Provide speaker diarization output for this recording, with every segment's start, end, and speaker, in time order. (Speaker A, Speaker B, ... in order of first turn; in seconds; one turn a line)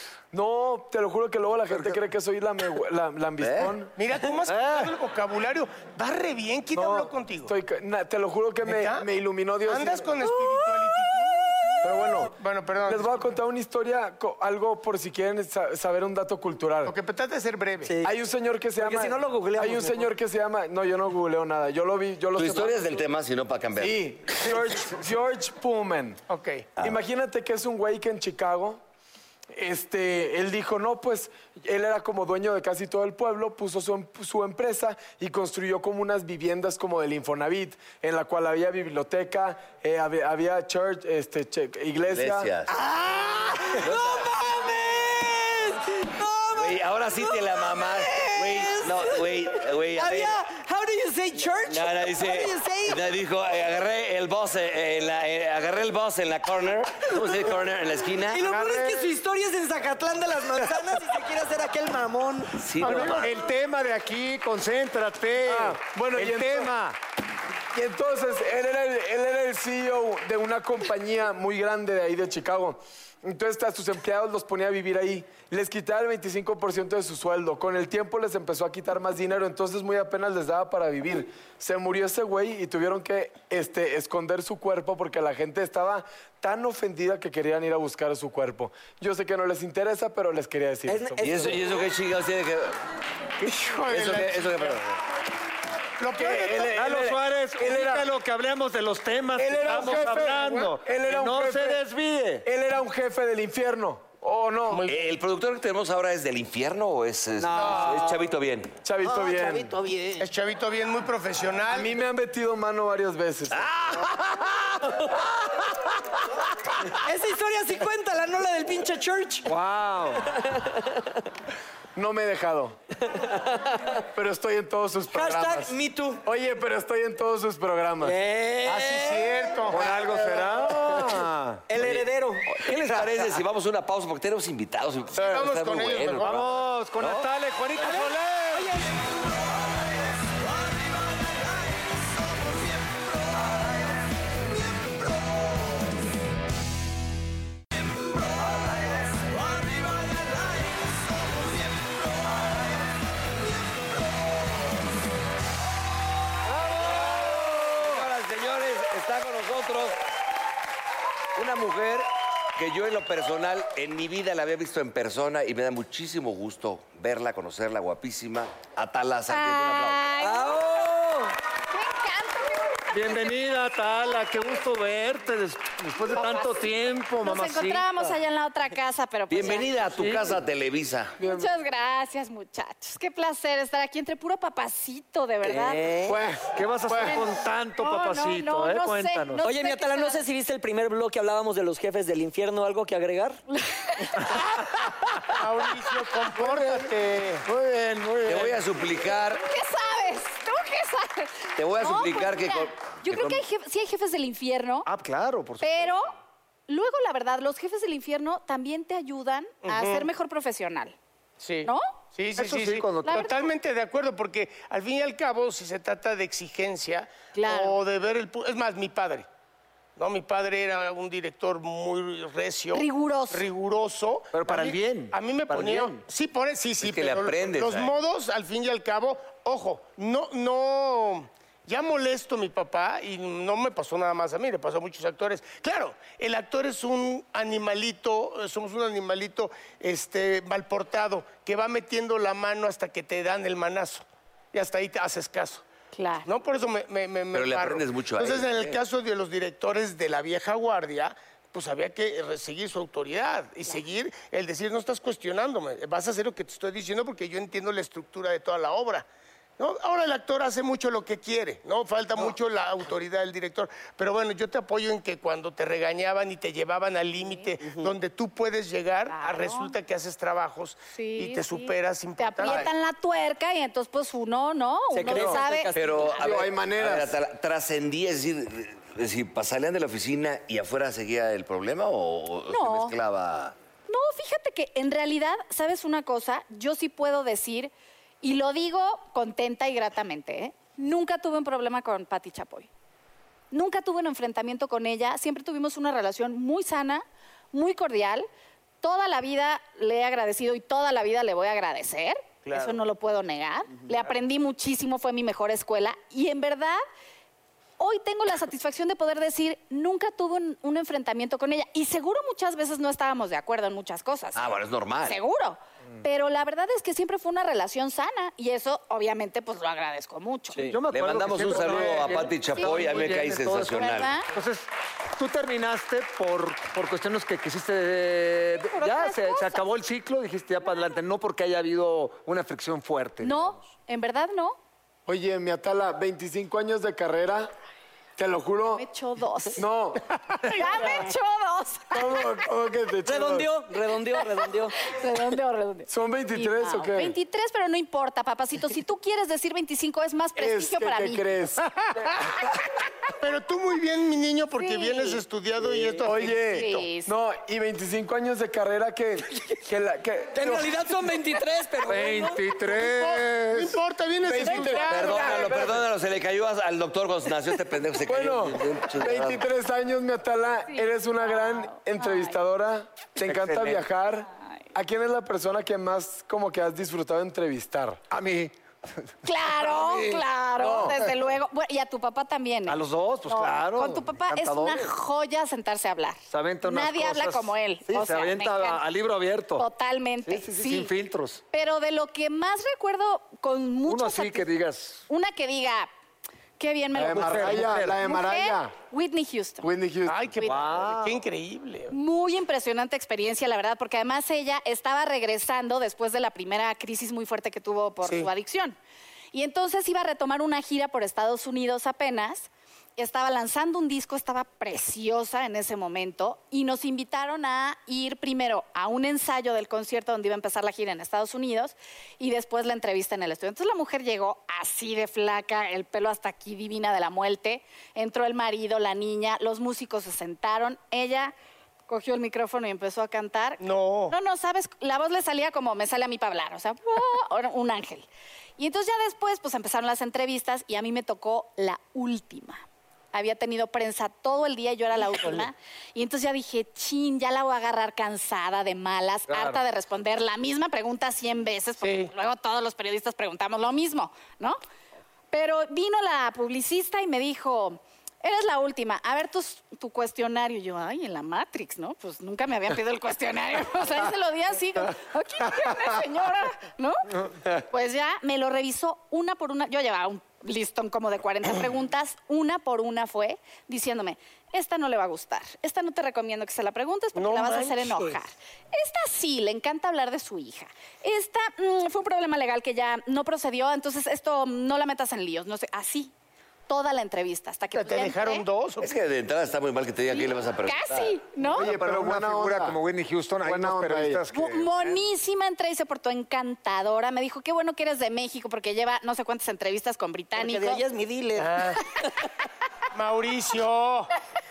Speaker A: 0.3-3.9
Speaker B: 1.7-2.0
Speaker C: 3.4-3.7
Speaker D: 4.0-7.5
Speaker B: 4.5-4.9
Speaker A: 6.7-10.1
Speaker D: 8.6-9.1
Speaker D: 9.7-13.3
Speaker A: 11.8-12.3
Speaker A: 12.8-16.9
Speaker D: 16.8-17.9
Speaker E: 17.8-18.1
Speaker A: 18.0-22.9
Speaker E: 18.8-20.1
Speaker C: 22.4-24.0
Speaker A: 23.8-26.2
Speaker D: 26.3-26.7
Speaker A: 26.8-28.8
Speaker A: 29.5-42.5
Speaker C: 42.1-42.7
Speaker E: 42.7-46.7
Speaker C: 43.8-44.3
Speaker C: 46.5-50.4
Speaker E: 48.1-49.1
Speaker E: 49.9-53.0
Speaker C: 51.7-58.5
Speaker E: 58.3-62.6
Speaker B: 58.5-58.9
Speaker C: 62.6-63.3
Speaker B: 62.8-67.0
Speaker D: 62.8-63.3
Speaker A: 65.5-66.7
Speaker A: 67.7-91.5
Speaker E: 90.9-91.6
Speaker C: 91.2-92.8
Speaker D: 93.4-94.8
Speaker C: 93.9-94.9
Speaker D: 96.0-96.8
Speaker A: 96.2-98.1
Speaker B: 96.6-102.5
Speaker D: 99.4-100.7
Speaker A: 99.6-101.8
Speaker A: 102.4-104.8
Speaker D: 104.7-105.0
Speaker C: 104.9-108.7
Speaker D: 107.5-108.1
Speaker E: 107.6-108.0
Speaker A: 108.8-109.7
Speaker E: 109.0-110.2
Speaker D: 110.2-112.0
Speaker A: 111.7-113.7
Speaker B: 114.1-114.5
Speaker E: 117.0-119.5
Speaker B: 119.4-120.3
Speaker E: 120.4-120.8
Speaker A: 122.0-122.8
Speaker E: 123.1-123.7
Speaker A: 124.1-128.2
Speaker E: 125.1-126.2
Speaker E: 128.0-129.3
Speaker D: 128.6-130.7
Speaker B: 129.7-131.6
Speaker E: 131.7-133.1
Speaker C: 131.8-137.3
Speaker D: 135.1-136.4
Speaker B: 136.2-138.8
Speaker E: 137.8-138.9
Speaker B: 156.6-158.0
Speaker C: 156.7-160.0
Speaker C: 161.3-170.1
Speaker F: 169.3-170.9
Speaker E: 170.2-171.3
Speaker F: 171.7-174.5
Speaker B: 172.9-178.1
Speaker F: 176.1-179.9
Speaker C: 179.3-181.2
Speaker B: 179.9-180.4
Speaker F: 181.2-185.9
Speaker E: 185.4-186.2
Speaker B: 186.1-189.4
Speaker A: 186.3-187.1
Speaker F: 186.9-190.2
Speaker E: 189.4-193.4
Speaker F: 193.5-194.4
Speaker D: 195.3-197.4
Speaker B: 196.3-196.9
Speaker B: 197.4-198.6
Speaker C: 198.2-199.4
Speaker F: 199.3-204.9
Speaker C: 201.6-203.4
Speaker B: 204.8-205.9
Speaker F: 205.6-206.1
Speaker F: 206.7-210.9
Speaker D: 209.6-210.1
Speaker D: 211.4-219.2
Speaker F: 211.6-211.9
Speaker B: 212.3-213.3
Speaker F: 213.0-213.5
Speaker F: 217.3-217.8
Speaker D: 220.0-245.6
Speaker F: 222.7-223.5
Speaker B: 224.3-226.0
Speaker C: 226.8-227.9
Speaker F: 245.9-246.3
Speaker D: 246.2-259.1
Speaker C: 247.3-248.8
Speaker D: 259.6-272.7
Speaker F: 267.2-267.5
Speaker F: 269.1-269.7
Speaker F: 270.9-275.8
Speaker E: 274.9-276.3
Speaker A: 275.1-275.4
Speaker C: 275.7-283.5
Speaker A: 276.1-277.1
Speaker F: 282.5-282.9
Speaker F: 283.9-292.7
Speaker F: 293.5-298.3
Speaker F: 298.8-306.8
Speaker F: 307.8-314.4
Speaker C: 314.3-315.2
Speaker F: 315.0-320.7
Speaker B: 320.7-333.6
Speaker C: 320.9-324.1
Speaker F: 322.6-322.9
Speaker F: 323.7-324.3
Speaker F: 328.6-329.6
Speaker F: 333.2-334.6
Speaker A: 335.1-337.5
Speaker A: 338.2-338.8
Speaker F: 338.7-339.6
Speaker A: 339.6-340.6
Speaker F: 340.4-342.3
Speaker A: 341.9-343.5
Speaker E: 343.1-344.7
Speaker F: 344.1-351.3
Speaker A: 345.9-347.1
Speaker A: 350.4-352.1
Speaker D: 353.2-356.8
Speaker F: 354.6-355.2
Speaker A: 356.0-360.8
Speaker F: 356.4-357.1
Speaker E: 360.3-362.4
Speaker B: 361.9-363.8
Speaker D: 362.6-365.6
Speaker A: 364.2-365.8
Speaker F: 364.4-365.5
Speaker C: 364.9-369.4
Speaker A: 368.1-378.0
Speaker F: 370.7-372.4
Speaker B: 373.2-373.9
Speaker B: 378.1-379.1
Speaker F: 379.2-388.8
Speaker B: 379.6-380.2
Speaker A: 380.6-380.9
Speaker B: 380.8-381.1
Speaker B: 382.7-384.9
Speaker B: 386.3-389.7
Speaker F: 389.6-390.9
Speaker B: 390.2-391.4
Speaker F: 391.5-394.5
Speaker B: 393.9-395.0
Speaker F: 395.1-395.9
Speaker F: 396.6-399.7
Speaker A: 396.9-398.7
Speaker B: 397.1-398.0
Speaker A: 399.6-400.3
Speaker D: 400.1-401.9
Speaker F: 400.4-400.6
Speaker B: 400.4-401.2
Speaker F: 401.9-408.8
Speaker D: 408.0-408.3
Speaker F: 409.3-431.3
Speaker F: 431.9-438.1
Speaker D: 433.6-434.1
Speaker F: 438.6-454.6
Speaker D: 445.0-445.4
Speaker D: 451.8-452.1
Speaker F: 455.3-486.1
Speaker D: 477.1-478.2
Speaker F: 486.7-488.4
Speaker D: 487.7-488.9
Speaker C: 488.8-491.1
Speaker F: 490.1-491.7
Speaker A: 491.5-492.8
Speaker B: 491.5-494.7
Speaker A: 493.4-494.2
Speaker F: 494.3-500.8
Speaker E: 500.3-501.5
Speaker D: 501.4-501.8
Speaker D: 502.9-504.1